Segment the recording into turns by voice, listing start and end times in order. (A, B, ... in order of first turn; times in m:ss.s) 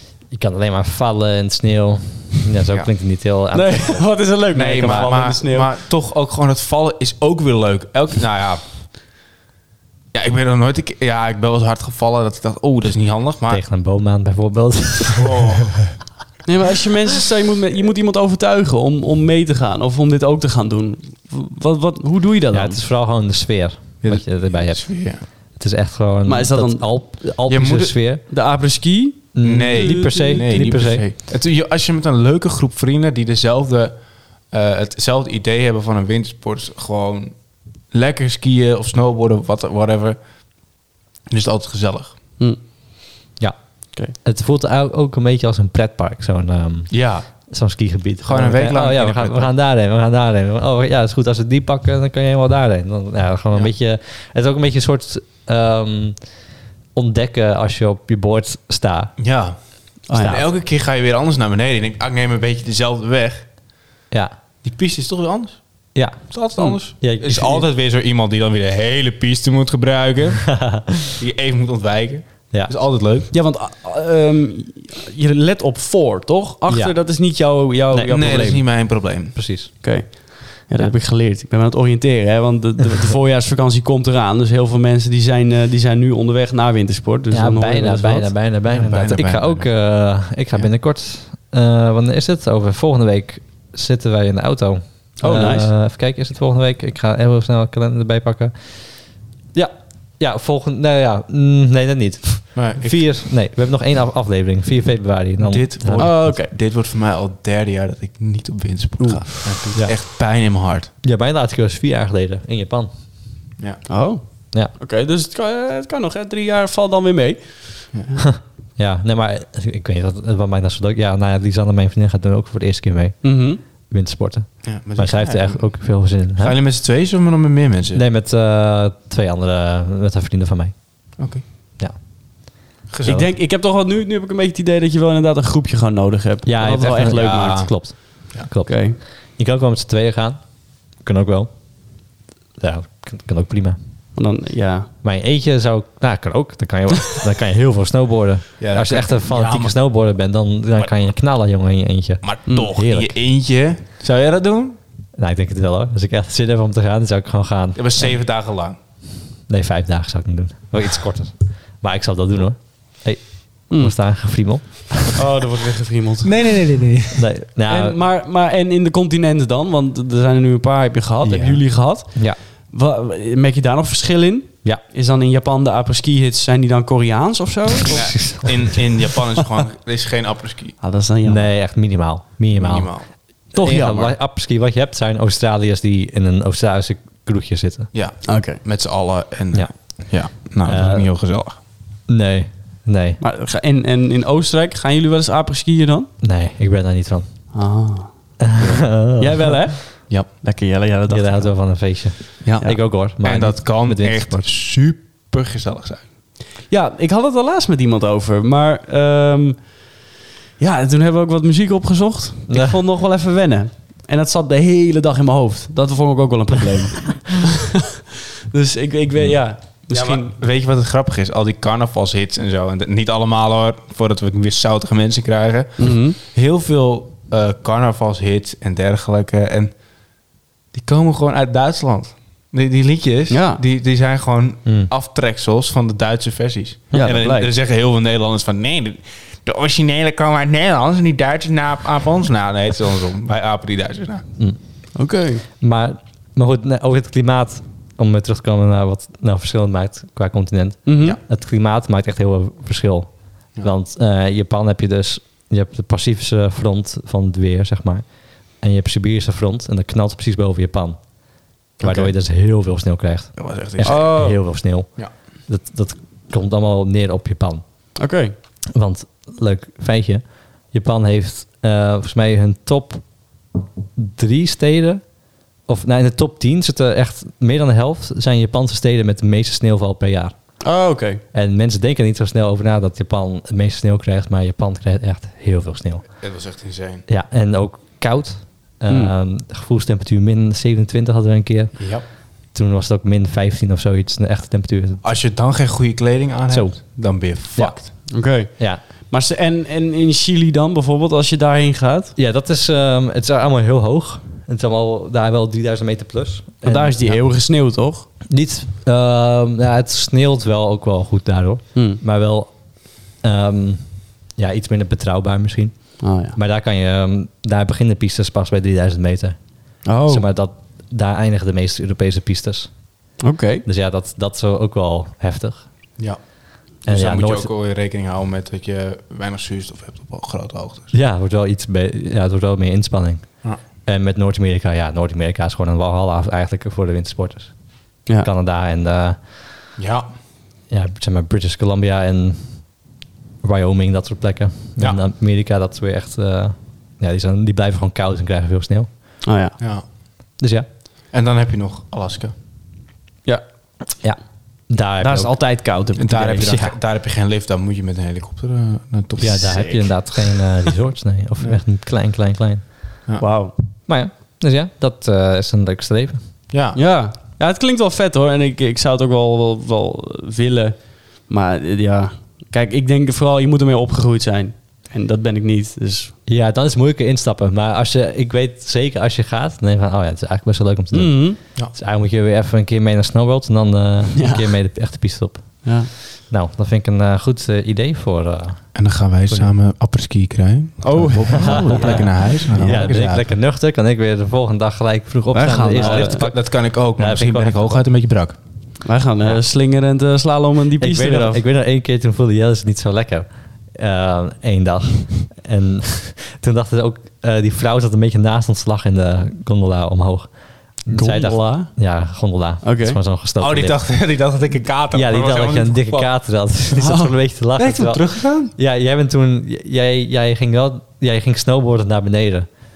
0:00.3-0:04.1 A
0:03.5-0:05.7 B
0:04.5-0:08.6 C
0:04.8-0:05.1 A
0:10.1-0:13.6 C
0:13.5-0:15.6 A
0:15.1-0:15.8 C
0:16.4-0:22.8 B
0:22.5-0:24.9 A
0:24.0-0:25.2 C
0:25.6-0:28.2 A
0:26.2-0:26.9 B
0:27.5-0:28.0 C
0:28.3-0:30.7 B
0:29.3-0:31.0 A
0:29.4-0:33.9 C
0:34.5-0:37.4 C
0:37.9-0:40.2 C
0:41.3-0:42.1 C
0:43.4-0:56.3 A
0:46.9-0:47.3 C
0:48.2-0:49.5 C
0:56.9-0:59.2 A
0:59.2-1:03.5 C
1:00.1-1:00.4 B
1:00.1-1:00.4 A
1:04.1-1:04.4 A
1:04.6-1:05.6 C
1:05.9-1:07.6 A
1:06.1-1:10.5 C
1:10.5-1:11.1 A
1:11.2-1:13.3 C
1:13.3-1:18.6 B
1:16.7-1:16.9 A
1:17.9-1:18.6 A
1:18.1-1:19.4 C
1:19.3-1:19.7 A
1:19.8-1:28.3 B
1:27.3-1:46.3 A
1:28.7-1:29.7 C
1:35.2-1:35.7 B
1:42.5-1:43.1 C
1:45.4-1:50.9 C
1:46.0-1:46.5 B
1:49.0-1:50.0 A
1:51.0-1:52.9 A
1:53.9-1:58.2 B
1:58.2-2:06.6 A
2:03.2-2:03.6 B
2:04.6-2:05.7 C
2:06.4-2:08.0 C
2:07.9-2:10.9 A
2:11.2-2:11.4 C
2:12.9-2:13.2 C
2:13.0-2:13.3 A
2:13.0-2:17.7 B
2:16.4-2:21.5 A
2:17.1-2:17.7 C
2:18.7-2:19.0 B
2:22.6-2:23.8 A
2:24.1-2:24.9 B
2:25.0-2:33.1 A
2:28.6-2:29.7 C
2:30.8-2:31.1 C
2:32.2-2:34.8 C
2:35.2-2:38.1 A
2:37.7-2:38.8 C
2:39.5-2:45.2 A
2:45.1-2:46.3 B
2:46.2-2:47.3 C
2:47.2-2:48.0 A
2:47.7-2:58.5 B
2:51.2-2:51.6 C
2:57.9-3:00.8 C
3:00.8-3:01.5 B
3:01.2-3:07.9 A
3:02.5-3:03.1 C
3:03.5-3:04.1 B
3:07.9-3:11.6 C
3:08.3-3:08.6 B
3:09.5-3:10.0 A
3:10.6-3:11.1 A
3:12.1-3:13.2 A
3:13.2-3:16.1 B
3:16.2-3:17.3 A
3:17.5-3:18.1 B
3:18.4-3:19.6 A
3:19.0-3:21.5 B
3:21.1-3:24.5 A
3:22.4-3:26.0 C
3:26.7-3:29.7 B
3:30.6-3:40.3 B
3:32.5-3:32.8 A
3:39.9-3:49.7 C
3:45.8-3:46.2 B
3:50.7-4:04.2 C
3:53.3-3:53.6 B
3:56.9-3:57.5 B
4:04.9-4:05.4 B
4:05.6-4:21.0 A
4:10.8-4:11.2 B
4:21.8-4:27.6 A
4:23.4-4:24.2 C
4:23.8-4:24.4 B
4:28.0-4:28.3 B
4:28.7-4:33.1 A
4:34.0-4:35.0 A
4:35.7-4:40.5 A
4:40.6-4:41.2 B
4:41.3-4:46.1 A
4:46.2-4:47.0 C
4:47.1-4:51.8 A
4:51.8-4:52.0 C
4:52.5-4:55.0 A
4:55.0-4:57.9 C
4:56.5-4:57.0 A
4:57.5-4:58.8 A
4:58.1-5:02.1 B
5:02.2-5:07.2 A
5:06.6-5:08.1 B
5:08.3-5:12.5 A
5:11.7-5:12.0 B
5:13.2-5:19.4 A
5:16.0-5:16.4 B
5:19.8-5:20.3 B
5:20.1-5:22.7 A
5:23.2-5:23.6 B
5:23.6-5:25.6 A
5:26.8-5:30.9 C
5:26.8-5:27.5 A
5:30.9-5:33.3 A
5:33.8-5:37.5 A
5:38.2-5:39.2 A
5:39.8-5:40.0 C
5:40.7-5:42.6 A
5:43.4-5:48.9 A
5:49.2-5:49.6 B
5:49.6-5:49.8 C
5:50.4-5:50.7 A
5:51.1-5:52.3 C
5:54.0-5:55.3 A
5:55.0-5:56.6 B
5:56.0-5:59.6 C
5:56.3-5:56.7 A
5:59.2-6:02.9 A
5:59.3-6:00.7 B
6:03.2-6:03.5 B
6:03.9-6:06.2 A
6:06.5-6:06.8 C
6:06.7-6:16.1 B
6:16.3-6:28.7 A
6:20.9-6:21.4 B
6:24.1-6:24.5 B
6:25.6-6:25.9 B
6:28.7-6:33.2 C
6:30.8-6:32.9 B
6:31.4-6:37.8 A
6:35.3-6:38.4 C
6:35.4-6:36.2 B
6:38.8-6:41.4 B
6:40.8-6:53.8 A
6:50.9-6:51.8 B
6:52.6-6:53.0 B
6:53.4-6:56.1 C
6:54.9-7:02.5 A
6:56.7-6:57.1 B
6:57.6-6:58.5 C